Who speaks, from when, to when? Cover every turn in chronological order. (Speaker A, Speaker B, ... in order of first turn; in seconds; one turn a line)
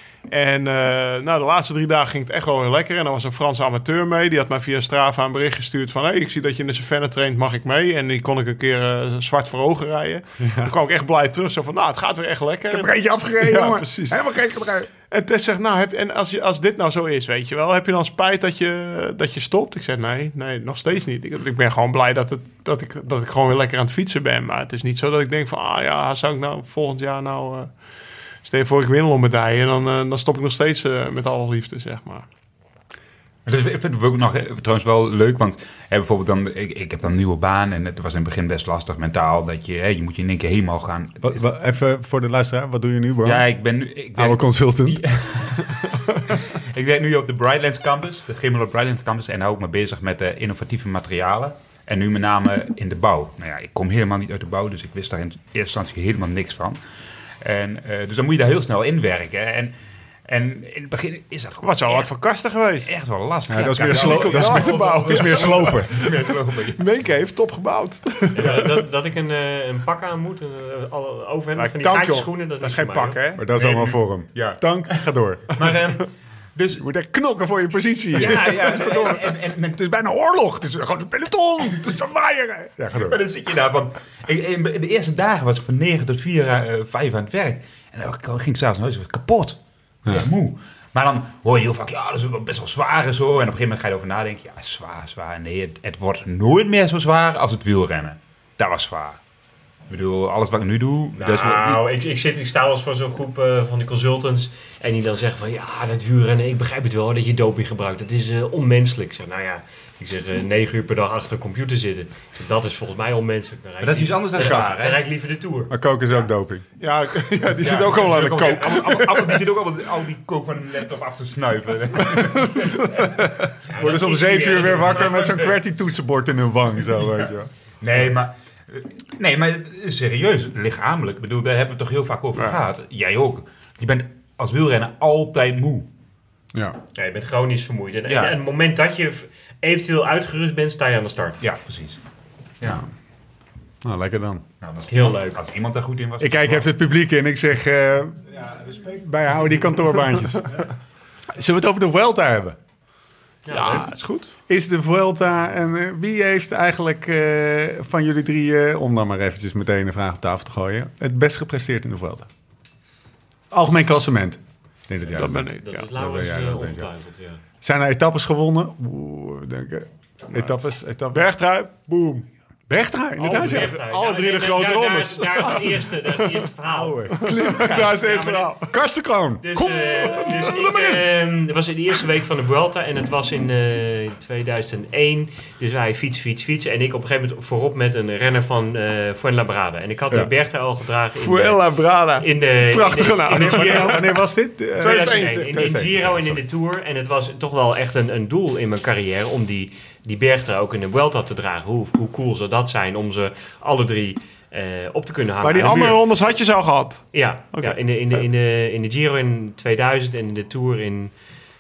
Speaker A: 0.2-14.2
Speaker B: 10.4-10.7
Speaker B: 12.7-14.9
Speaker A: 15.1-27.8
Speaker A: 28.4-32.3
Speaker C: 33.5-41.4
Speaker B: 41.2-43.5
Speaker C: 43.2-56.8
Speaker B: 44.1-45.0
Speaker C: 57.4-59.7
Speaker C: 60.3-62.1
Speaker A: 61.6-62.9
Speaker C: 62.8-66.8
Speaker B: 63.5-66.0
Speaker A: 63.8-68.7
Speaker D: 68.3-73.2
Speaker A: 71.6-73.4
Speaker B: 73.4-75.6
Speaker C: 73.5-76.8
Speaker B: 76.8-83.2
Speaker C: 78.1-79.8
Speaker C: 82.9-99.2
Speaker C: 99.9-101.8
Speaker D: 101.2-115.7
Speaker C: 113.8-115.0
Speaker B: 115.7-116.6
Speaker A: 116.8-119.4
Speaker C: 117.6-123.2
Speaker A: 122.1-123.2
Speaker C: 123.7-125.5
Speaker D: 123.8-125.3
Speaker B: 123.8-127.5
Speaker C: 127.8-135.9
Speaker D: 136.9-141.4
Speaker C: 138.1-138.4
Speaker C: 141.4-142.0
Speaker C: 142.6-142.9
Speaker B: 143.8-144.4
Speaker C: 144.6-146.7
Speaker D: 144.9-145.4
Speaker B: 146.2-150.6
Speaker B: 151.3-152.6
Speaker D: 153.4-153.9
Speaker A: 153.5-154.3
Speaker B: 154.5-162.3
Speaker B: 163.5-166.9
Speaker A: 165.1-165.7
Speaker D: 165.6-167.4
Speaker B: 167.6-171.3
Speaker A: 170.3-170.6
Speaker A: 171.1-172.2
Speaker B: 172.7-173.8
Speaker A: 173.2-176.5
Speaker D: 173.2-178.5
Speaker B: 176.7-181.0
Speaker A: 177.2-178.6
Speaker D: 179.4-194.1
Speaker A: 191.2-194.2
Speaker B: 193.3-196.4
Speaker A: 194.8-195.4
Speaker D: 194.8-206.0
Speaker A: 205.4-208.2
Speaker D: 207.1-211.2